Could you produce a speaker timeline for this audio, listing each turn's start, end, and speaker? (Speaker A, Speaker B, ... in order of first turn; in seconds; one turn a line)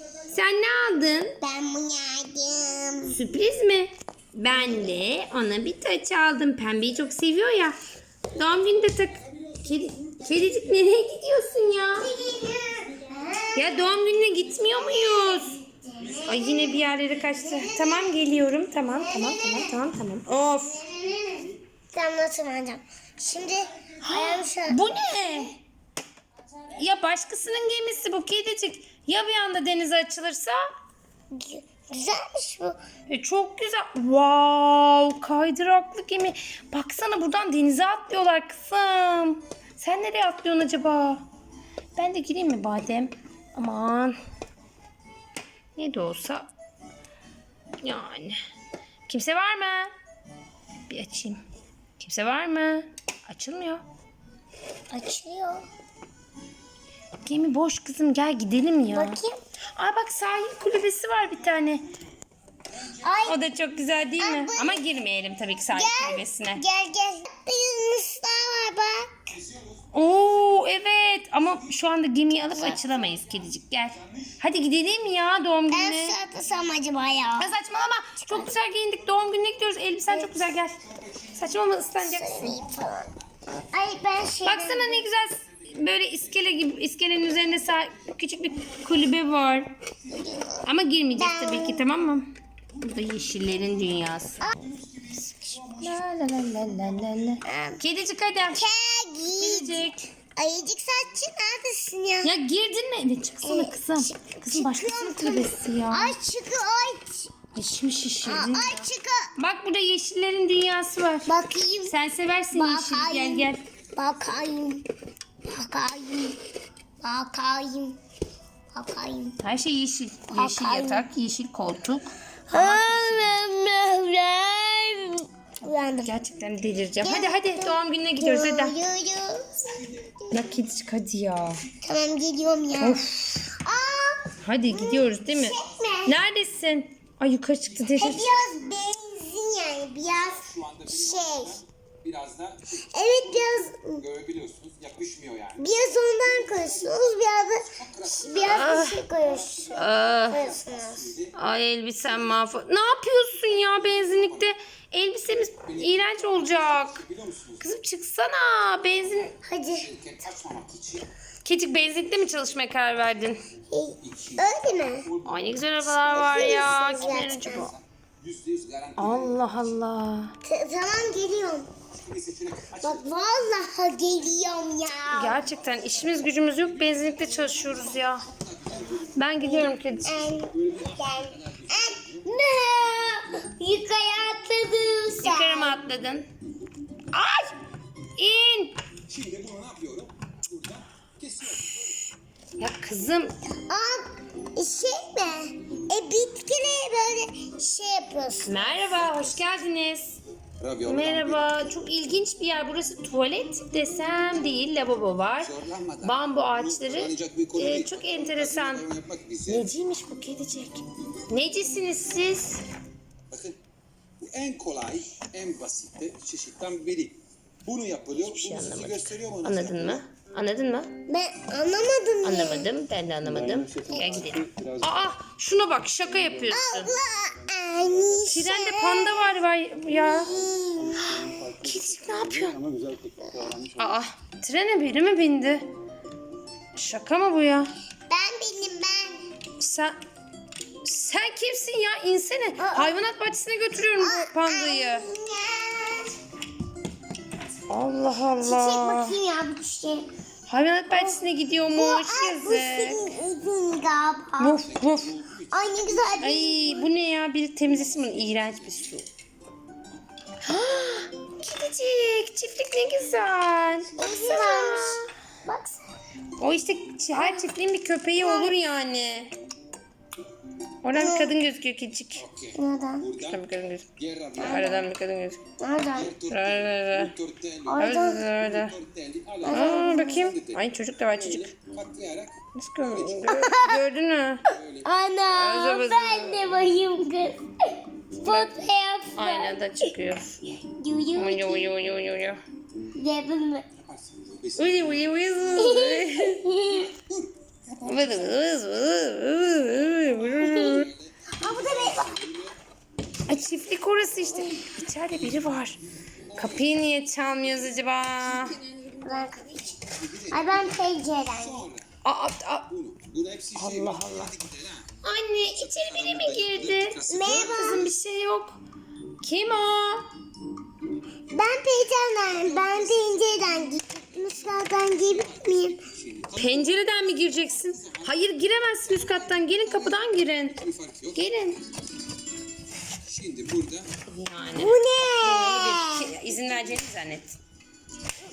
Speaker A: 0.3-1.4
Speaker B: 1.4-3.2
Speaker A: 3.1-7.8
Speaker A: 8.3-12.1
Speaker B: 12.0-13.8
Speaker A: 13.6-15.6
Speaker B: 14.9-16.8
Speaker A: 16.2-20.8
Speaker B: 17.3-18.1
Speaker B: 18.9-19.8
Speaker B: 20.5-25.0
Speaker A: 24.0-25.5
Speaker A: 26.7-30.6
Speaker B: 31.3-32.8
Speaker A: 33.1-41.2
Speaker A: 42.0-44.2
Speaker A: 45.8-46.5
Speaker A: 47.8-48.4
Speaker A: 49.1-49.9
Speaker A: 50.9-51.4
Speaker A: 52.0-53.8
Speaker B: 54.9-55.6
Speaker A: 57.2-59.2
Speaker B: 58.9-59.4
Speaker A: 59.8-61.8
Speaker B: 62.9-63.4
Speaker A: 63.2-66.6
Speaker B: 64.2-64.8
Speaker B: 65.7-69.1
Speaker A: 69.9-76.2
Speaker B: 72.5-72.8
Speaker B: 75.7-77.5
Speaker A: 77.4-82.5
Speaker B: 78.2-78.5
Speaker B: 80.1-80.4
Speaker B: 82.0-83.1
Speaker B: 83.7-85.0
Speaker A: 84.5-89.7
Speaker B: 90.1-90.6
Speaker A: 90.7-94.5
Speaker B: 91.2-91.9
Speaker A: 95.7-98.7
Speaker B: 97.5-97.8
Speaker B: 98.5-102.3
Speaker A: 99.4-100.1
Speaker A: 102.2-106.1
Speaker B: 103.4-107.3
Speaker A: 107.5-108.8
Speaker B: 108.2-109.3
Speaker A: 109.4-111.3
Speaker B: 111.3-112.0
Speaker A: 111.9-113.6
Speaker B: 112.5-114.9
Speaker B: 115.5-116.4
Speaker B: 117.0-118.0
Speaker B: 118.7-119.4
Speaker A: 119.4-123.4
Speaker B: 120.3-121.1
Speaker B: 122.5-126.2
Speaker A: 126.0-128.8
Speaker B: 127.0-129.6
Speaker B: 130.2-130.5
Speaker A: 130.3-131.7
Speaker B: 131.8-133.0
Speaker A: 132.8-133.5
Speaker B: 133.6-136.2
Speaker A: 134.4-138.3
Speaker B: 138.0-141.6
Speaker C: 140.5-141.2
Speaker C: 142.1-142.6
Speaker B: 142.9-144.1
Speaker C: 144.2-145.5
Speaker B: 145.6-151.2
Speaker A: 148.4-149.0
Speaker A: 149.7-150.5
Speaker A: 151.3-157.0
Speaker A: 157.6-159.4
Speaker B: 159.4-160.1
Speaker C: 159.9-161.1
Speaker A: 161.4-163.4
Speaker B: 163.7-165.1
Speaker A: 165.2-167.8
Speaker B: 166.0-167.7
Speaker C: 168.5-168.9
Speaker A: 169.0-170.3
Speaker B: 170.4-171.7
Speaker C: 172.1-172.8
Speaker B: 172.8-175.4
Speaker A: 175.1-178.3
Speaker A: 179.2-180.3
Speaker B: 179.4-185.8
Speaker A: 185.2-186.3
Speaker A: 187.1-187.6
Speaker A: 188.2-188.8
Speaker C: 189.1-190.6
Speaker C: 191.3-191.9
Speaker A: 192.6-193.3
Speaker B: 193.7-198.8
Speaker A: 198.5-200.2
Speaker C: 200.6-201.1
Speaker A: 200.8-208.9
Speaker C: 206.9-209.4
Speaker A: 209.5-212.6
Speaker C: 214.2-217.1
Speaker C: 217.7-219.6
Speaker A: 218.1-220.9
Speaker B: 221.1-222.7
Speaker A: 222.2-226.9
Speaker C: 224.2-224.6
Speaker B: 226.5-229.3
Speaker A: 228.3-230.4
Speaker B: 229.9-231.3
Speaker A: 231.0-232.6
Speaker C: 231.4-233.7
Speaker A: 233.8-235.7
Speaker A: 236.8-237.7
Speaker B: 238.1-239.2
Speaker A: 239.6-239.9
Speaker A: 240.8-245.1
Speaker B: 242.6-243.1
Speaker B: 244.0-246.1
Speaker A: 247.7-249.2
Speaker B: 248.4-250.1
Speaker A: 250.5-253.0
Speaker B: 250.9-251.2
Speaker B: 251.7-254.6
Speaker A: 254.4-255.2
Speaker B: 255.5-256.8
Speaker A: 256.2-259.1
Speaker A: 260.4-265.0
Speaker B: 264.0-265.8
Speaker A: 266.4-269.3
Speaker B: 267.1-267.5
Speaker B: 268.2-268.5
Speaker A: 270.8-272.2
Speaker B: 270.9-271.3
Speaker B: 272.5-273.1
Speaker A: 273.2-275.4
Speaker B: 274.4-274.9
Speaker B: 275.6-276.2
Speaker C: 276.2-276.5
Speaker A: 276.3-277.2
Speaker B: 277.7-278.2
Speaker A: 277.8-278.8
Speaker C: 278.8-280.2
Speaker B: 279.4-280.3
Speaker A: 279.5-281.6
Speaker C: 281.6-282.3
Speaker A: 282.6-284.5
Speaker B: 283.2-283.8
Speaker B: 284.8-287.4
Speaker A: 285.3-286.5
Speaker B: 288.2-289.9
Speaker A: 289.2-290.4
Speaker B: 290.5-291.7
Speaker A: 291.1-292.4
Speaker B: 292.9-293.7
Speaker C: 294.1-294.5
Speaker A: 294.6-296.4
Speaker B: 295.5-296.9
Speaker B: 297.8-298.3
Speaker A: 297.8-300.9
Speaker B: 300.5-302.3
Speaker A: 303.3-305.8
Speaker A: 306.3-308.6
Speaker B: 308.9-311.7
Speaker A: 312.0-312.7
Speaker C: 312.9-314.6
Speaker A: 313.6-314.4
Speaker A: 315.0-318.6
Speaker C: 315.8-317.3
Speaker B: 317.1-317.9
Speaker A: 319.2-320.1
Speaker B: 321.3-325.8
Speaker A: 326.3-331.6
Speaker C: 333.1-333.8
Speaker A: 334.1-337.4
Speaker B: 334.6-336.1